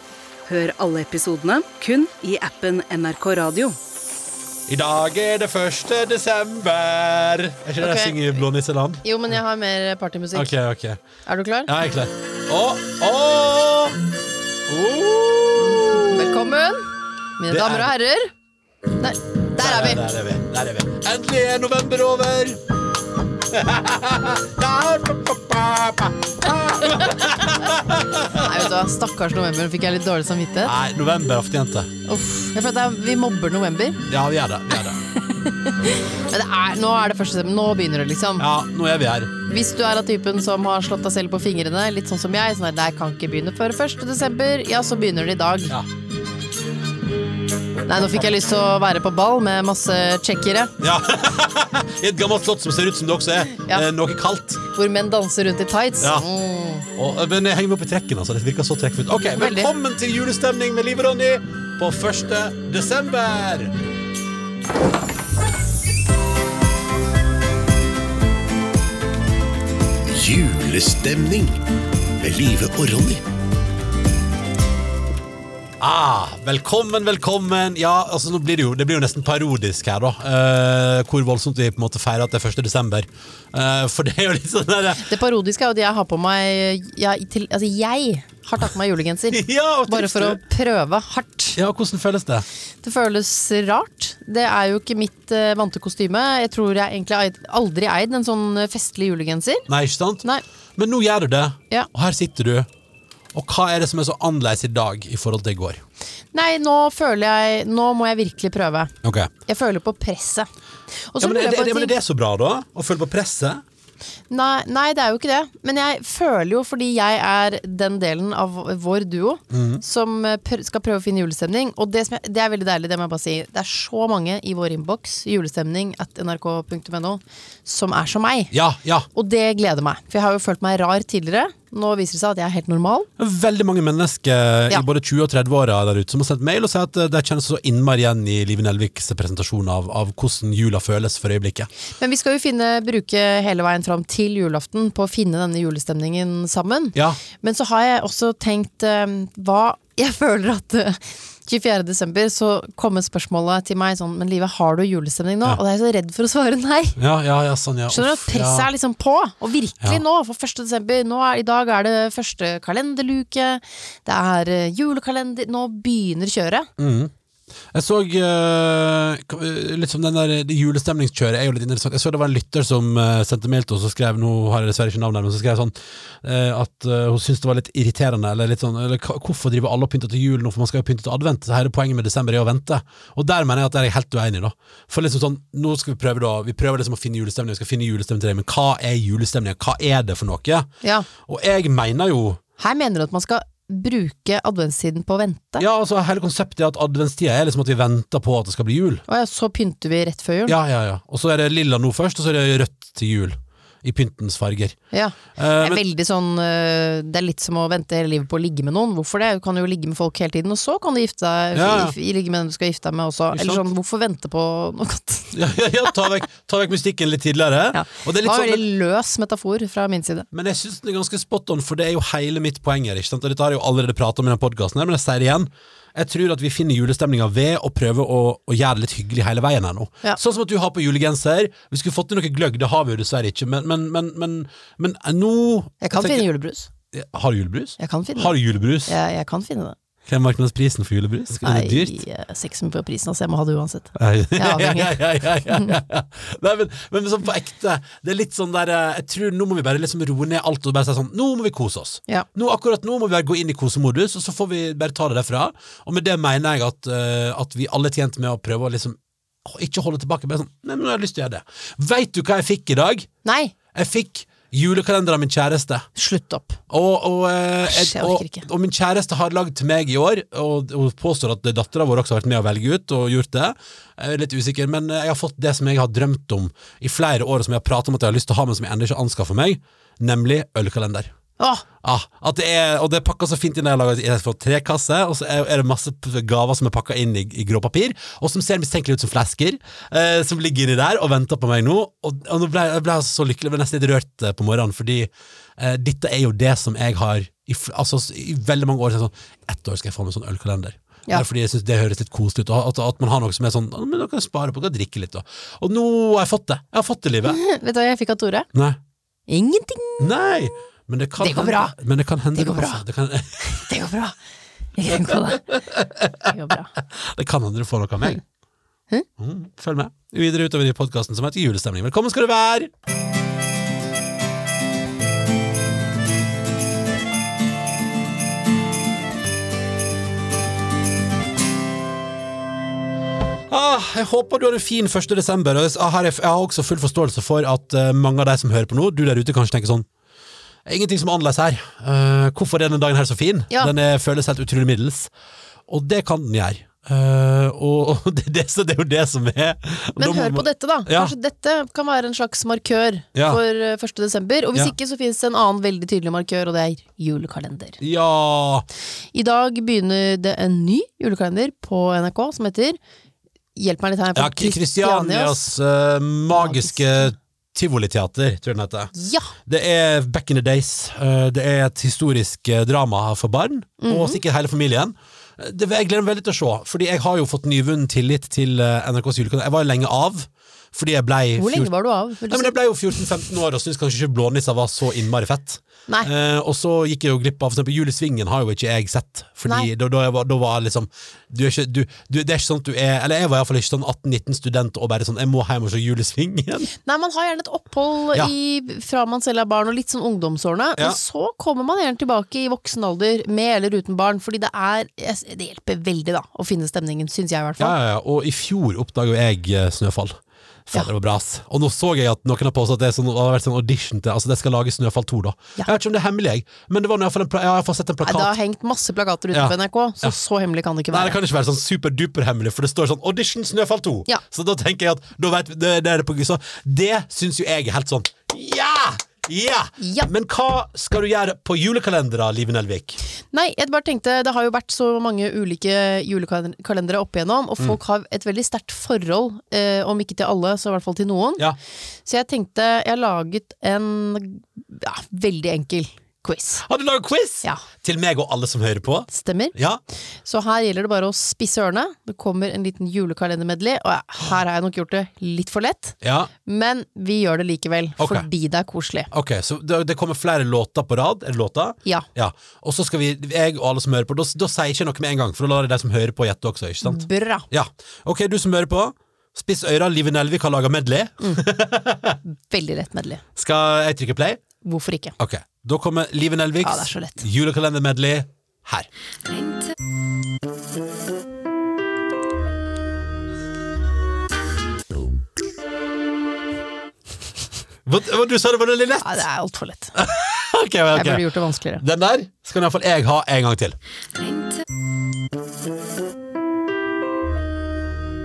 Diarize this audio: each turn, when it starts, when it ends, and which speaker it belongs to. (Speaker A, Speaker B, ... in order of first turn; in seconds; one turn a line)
Speaker A: 0.5-3.7
Speaker B: 4.7-9.0
Speaker C: 7.8-8.4
Speaker C: 9.0-10.5
Speaker B: 10.3-11.0
Speaker C: 11.2-11.7
Speaker B: 11.7-14.0
Speaker B: 14.7-16.3
Speaker C: 15.7-16.8
Speaker C: 17.4-18.3
Speaker B: 17.5-17.9
Speaker C: 19.0-20.0
Speaker B: 19.6-22.6
Speaker B: 23.5-28.7
Speaker C: 27.1-27.4
Speaker C: 28.4-30.7
Speaker B: 30.6-31.9
Speaker C: 32.1-34.0
Speaker B: 34.1-35.0
Speaker C: 35.1-38.5
Speaker B: 38.4-39.3
Speaker C: 39.4-45.7
Speaker C: 47.9-50.7
Speaker B: 50.8-54.6
Speaker C: 53.5-53.9
Speaker C: 54.7-56.9
Speaker B: 56.0-56.2
Speaker B: 56.9-63.7
Speaker C: 59.3-59.7
Speaker D: 70.1-71.5
Speaker D: 72.2-73.2
Speaker B: 75.8-85.0
Speaker C: 85.0-91.6
Speaker B: 89.3-90.4
Speaker B: 91.5-92.4
Speaker C: 92.8-99.7
Speaker B: 99.7-100.2
Speaker B: 100.8-102.7
Speaker B: 103.3-105.8
Speaker C: 106.3-108.9
Speaker B: 109.0-109.3
Speaker C: 109.5-110.5
Speaker C: 111.0-111.9
Speaker B: 111.2-113.6
Speaker C: 114.3-128.5
Speaker B: 119.5-119.8
Speaker B: 128.5-129.1
Speaker C: 129.1-133.1
Speaker B: 133.2-141.7
Speaker C: 142.0-157.0
Speaker B: 146.9-147.2
Speaker B: 156.9-158.7
Speaker C: 157.9-166.7
Speaker B: 166.8-167.1
Speaker B: 167.7-190.7
Speaker C: 190.8-191.1
Speaker B: 191.2-192.4
Speaker C: 192.6-195.6
Speaker B: 195.6-199.0
Speaker C: 199.1-200.6
Speaker B: 200.5-204.8
Speaker C: 204.9-215.3
Speaker B: 205.3-205.8
Speaker B: 211.5-211.9
Speaker B: 213.3-213.6
Speaker B: 215.3-218.6
Speaker C: 217.7-220.3
Speaker B: 220.3-236.2
Speaker C: 235.8-236.7
Speaker B: 236.9-238.9
Speaker C: 237.8-239.8
Speaker B: 240.1-242.0
Speaker C: 241.4-245.0
Speaker B: 243.9-263.1
Speaker C: 263.2-263.5
Speaker B: 263.7-265.9
Speaker C: 265.9-266.6
Speaker B: 266.7-281.1
Speaker C: 267.6-268.4
Speaker C: 281.4-281.6
Speaker B: 281.8-307.4
Speaker C: 307.2-308.5
Speaker B: 308.5-308.8
Speaker C: 309.3-310.1
Speaker B: 310.0-313.6
Speaker C: 311.2-311.7
Speaker C: 312.3-312.8
Speaker C: 313.4-314.1
Speaker C: 314.8-315.4
Speaker B: 315.1-316.3
Speaker C: 316.2-316.7
Speaker B: 316.9-318.2
Speaker B: 319.2-322.7
Speaker B: 333.5-339.9
Speaker B: 340.6-345.1
Speaker B: 345.7-351.1
Speaker C: 350.0-357.8
Speaker B: 353.1-353.4
Speaker B: 357.8-358.7
Speaker C: 359.1-362.8
Speaker C: 363.6-365.4
Speaker B: 364.1-368.9
Speaker C: 366.3-367.1
Speaker C: 368.9-369.3
Speaker B: 369.4-381.7
Speaker C: 373.8-374.2
Speaker C: 381.4-382.5
Speaker B: 382.3-396.7
Speaker C: 396.8-407.8
Speaker B: 407.6-418.3
Speaker C: 418.0-421.2
Speaker B: 419.3-420.1
Speaker B: 420.9-433.0
Speaker C: 429.8-430.1
Speaker C: 433.3-441.4
Speaker C: 442.1-446.6
Speaker B: 446.6-449.8
Speaker C: 449.1-449.5
Speaker C: 450.2-459.1
Speaker B: 456.0-456.3
Speaker B: 458.0-458.3
Speaker B: 459.1-472.2
Speaker C: 466.8-467.5
Speaker C: 472.3-473.2
Speaker B: 473.4-474.4
Speaker C: 474.6-475.1
Speaker B: 475.2-478.9
Speaker C: 476.6-477.2
Speaker A: 479.3-479.7
Speaker B: 487.8-489.2
Speaker C: 489.0-489.9
Speaker B: 490.0-491.3
Speaker C: 490.9-491.8
Speaker B: 491.8-493.8
Speaker A: 494.2-494.6